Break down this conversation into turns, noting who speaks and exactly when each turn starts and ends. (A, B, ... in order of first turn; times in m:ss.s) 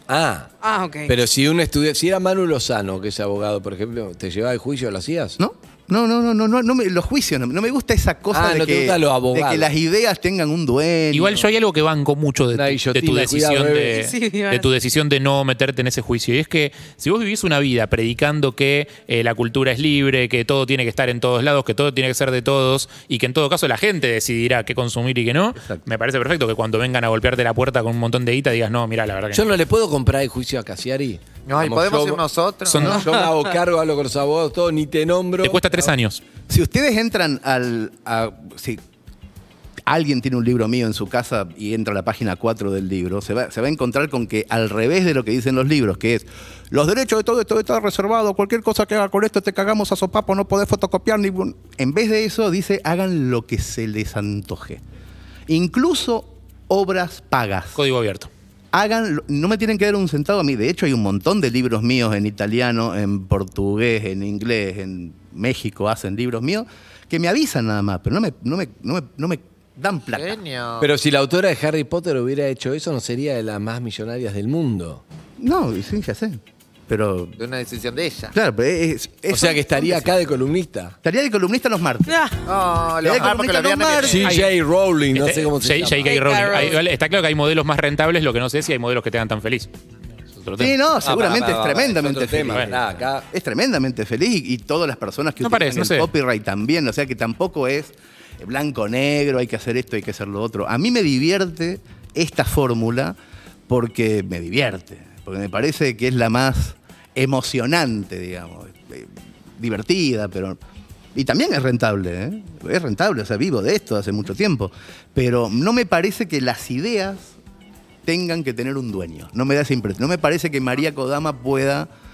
0:00.1-0:00.5 A
0:00.6-0:01.1 B
0:01.1-0:05.4 A
0:05.4-0:11.5 C
0:08.3-0:09.7 A
0:11.1-0:29.5 D
0:12.5-0:14.0 A
0:13.9-0:14.7 B
0:25.6-0:25.8 C
0:29.3-0:32.2 A
0:31.5-0:33.0 E
0:32.7-0:33.2 D
0:32.8-0:35.9 A
0:35.4-0:36.2 D
0:36.5-0:38.8 C
0:39.9-0:54.8 C
0:55.5-0:57.8 C
0:57.8-0:58.3 D
0:58.7-1:10.4 C
1:10.1-1:10.9 E
1:10.8-1:15.0 A
1:15.4-1:17.4 C
1:17.4-1:18.3 E
1:18.3-1:20.2 C
1:19.3-1:21.0 A
1:21.0-1:22.2 C
1:22.1-1:22.4 B
1:22.5-1:24.3 E
1:23.0-1:24.4 C
1:24.1-1:26.1 A
1:24.2-1:24.5 D
1:25.1-1:29.7 D
1:26.1-1:26.8 B
1:30.4-1:30.8 D
1:30.6-1:43.2 C
1:31.0-1:33.2 A
1:35.4-1:36.1 D
1:43.7-1:50.6 C
1:51.2-1:57.4 C
1:58.0-2:01.9 C